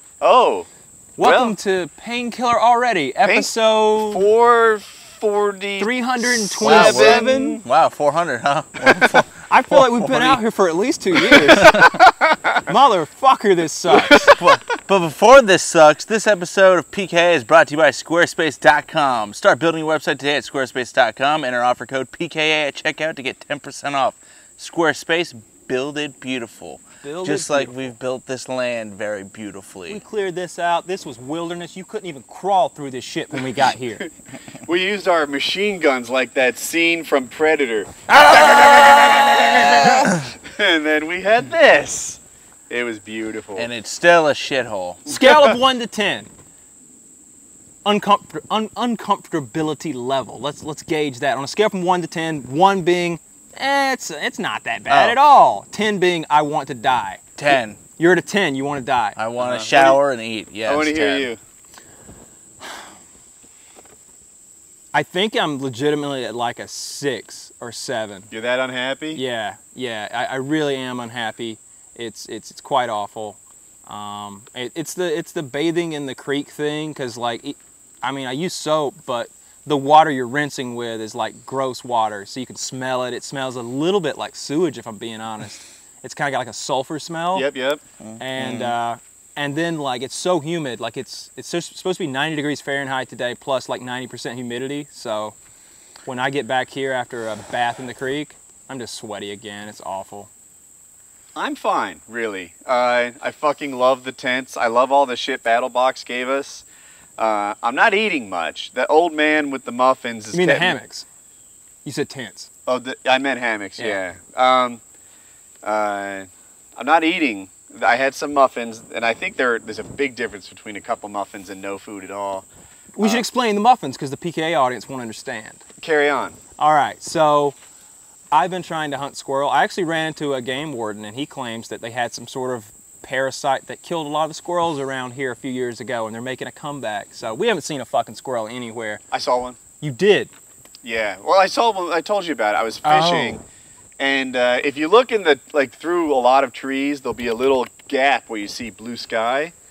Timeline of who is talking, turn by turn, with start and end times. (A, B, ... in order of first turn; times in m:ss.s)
0:00.2-0:00.7 A
0:01.2-0:04.2 B
0:01.2-0:01.6 A
0:03.2-0:07.6 A
0:05.8-0:07.6 B
0:06.6-0:10.4 C
0:09.3-0:11.9 B
0:11.4-0:12.6 A
0:11.5-0:12.0 C
0:12.7-0:14.3 B
0:13.9-0:14.4 A
0:14.1-0:30.0 C
0:27.0-0:27.9 B
0:29.9-0:34.0 B
0:34.6-0:43.7 A
0:38.1-0:40.1 B
0:43.5-0:45.0 C
0:45.0-0:45.5 A
0:45.1-0:46.3 B
0:47.8-0:57.3 B
0:54.9-0:55.2 C
0:57.4-0:57.8 C
0:58.0-0:59.2 B
0:59.2-1:01.3 C
0:59.4-1:00.0 A
1:00.6-1:01.4 A
1:04.9-1:08.3 B
1:08.3-1:09.2 A
1:09.1-1:27.5 B
1:27.3-1:27.8 A
1:28.0-1:28.8 C
1:28.2-1:35.3 B
1:36.0-1:40.3 B
1:41.4-1:46.6 A
1:47.2-1:50.8 A
1:50.3-1:51.0 B
1:51.8-1:52.5 B
1:52.7-1:54.8 A
1:55.6-2:02.5 A
2:02.9-2:05.6 B
2:03.0-2:03.2 A
2:05.8-2:06.4 A
2:06.6-2:07.6 B
2:08.3-2:19.0 B
2:19.1-2:19.6 A
2:19.8-2:20.3 B
2:20.8-2:23.4 A
2:22.8-2:23.4 B
2:24.0-2:29.5 A